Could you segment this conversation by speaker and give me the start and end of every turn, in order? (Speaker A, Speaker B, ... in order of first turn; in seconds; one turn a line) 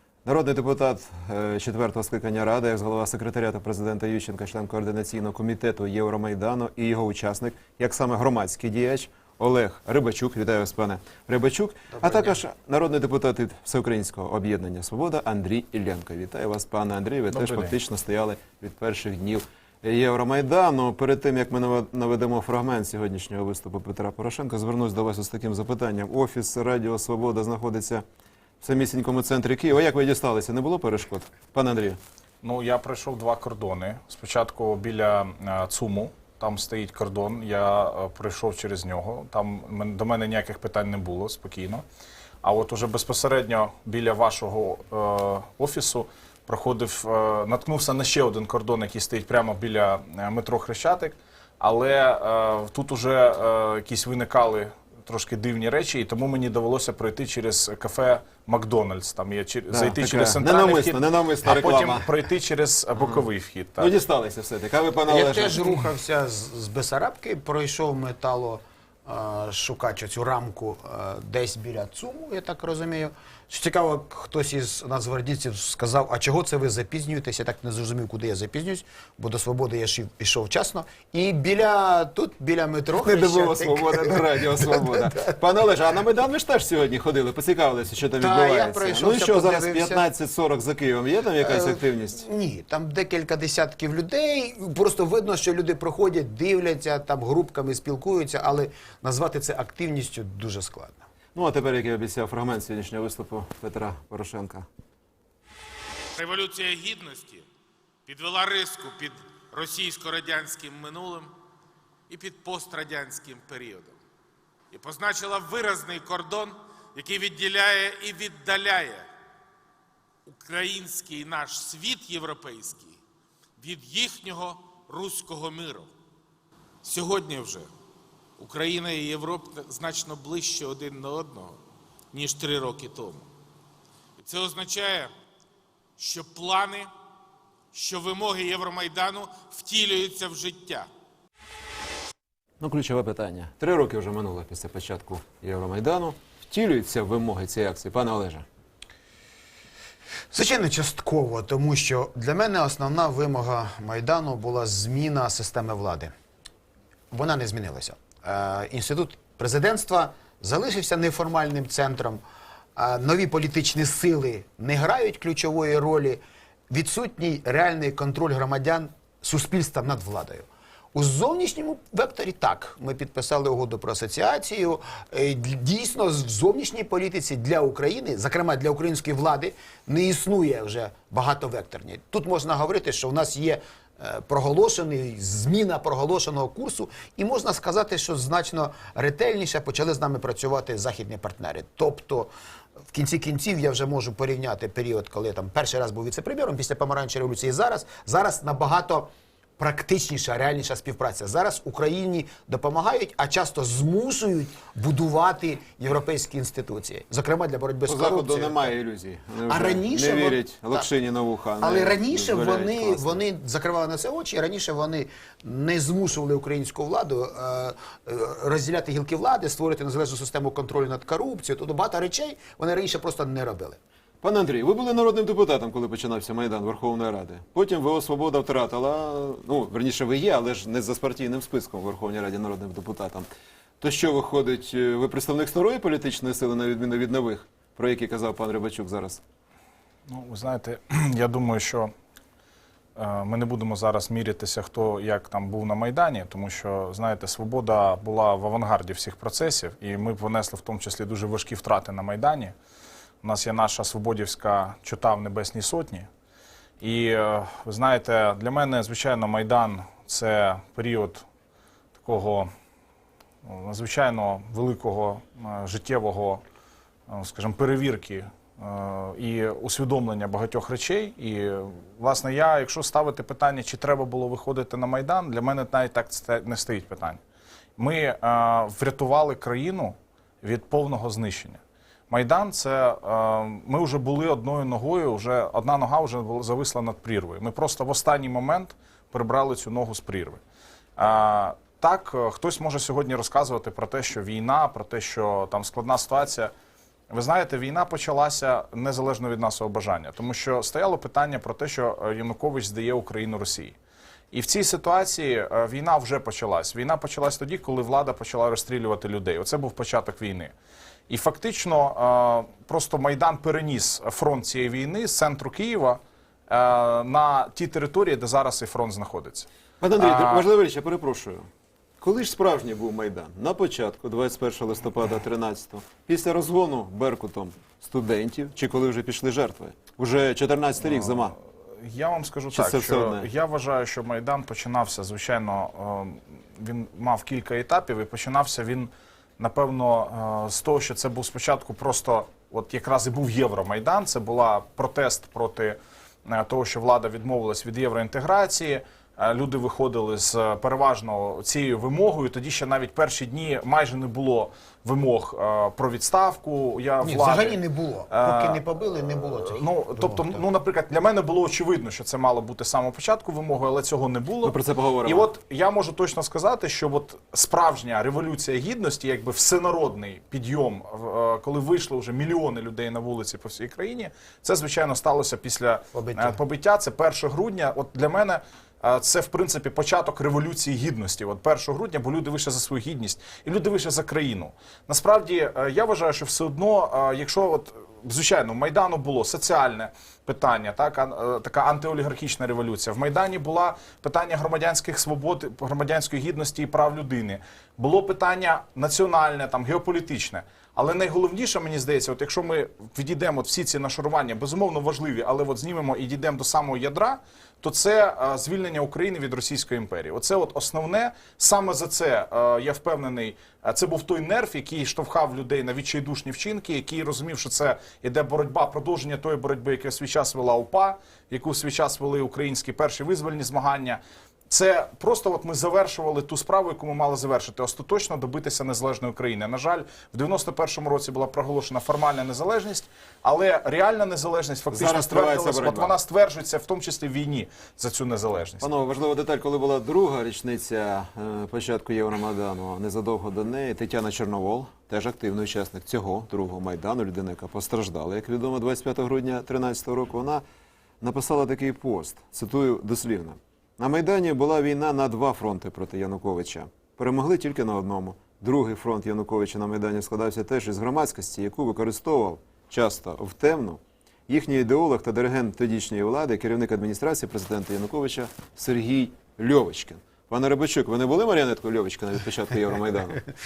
Speaker A: 0.2-28.0
Speaker B: 11.9-12.4
Speaker C: 17.3-17.8
Speaker A: 28.6-32.0
Speaker C: 32.4-41.8
Speaker C: 42.4-64.0
Speaker A: 59.7-62.1
Speaker A: 63.0-63.2
Speaker A: 63.8-65.9
Speaker B: 65.1-85.3
Speaker A: 83.0-92.2
Speaker B: 88.2-90.1
Speaker B: 91.4-101.1
Speaker A: 101.3-104.7
Speaker D: 106.2-107.5
Speaker D: 108.1-111.3
Speaker D: 112.1-114.0
Speaker D: 114.7-119.1
Speaker D: 120.3-123.0
Speaker D: 123.6-125.9
Speaker D: 126.8-127.7
Speaker D: 128.4-131.6
Speaker D: 132.1-133.2
Speaker D: 134.2-135.1
Speaker D: 136.0-136.9
Speaker D: 137.7-140.9
Speaker A: 142.6-148.5
Speaker B: 150.3-156.1
Speaker B: 157.1-162.2
Speaker B: 162.8-192.3
Speaker B: 192.9-208.7
Speaker A: 207.9-213.2
Speaker B: 209.5-210.9
Speaker B: 211.6-223.8
Speaker A: 224.2-233.3
Speaker A: 233.8-239.2
Speaker C: 240.1-241.9
Speaker C: 243.0-252.5
Speaker C: 253.2-256.1
Speaker C: 256.8-261.2
Speaker C: 262.0-262.5
Speaker C: 263.4-266.4
Speaker C: 267.1-277.2
Speaker C: 277.8-281.6
Speaker C: 282.1-290.4
Speaker C: 291.0-296.5
Speaker C: 297.1-303.8
Speaker C: 304.3-310.5
Speaker C: 311.1-320.5
Speaker A: 319.8-321.5
Speaker A: 322.0-331.4
Speaker C: 330.8-438.7
Speaker A: 332.5-333.3
Speaker B: 357.0-360.4
Speaker A: 364.4-365.3
Speaker B: 375.9-376.4
Speaker A: 434.7-435.9
Speaker A: 438.6-450.4
Speaker A: 451.0-473.2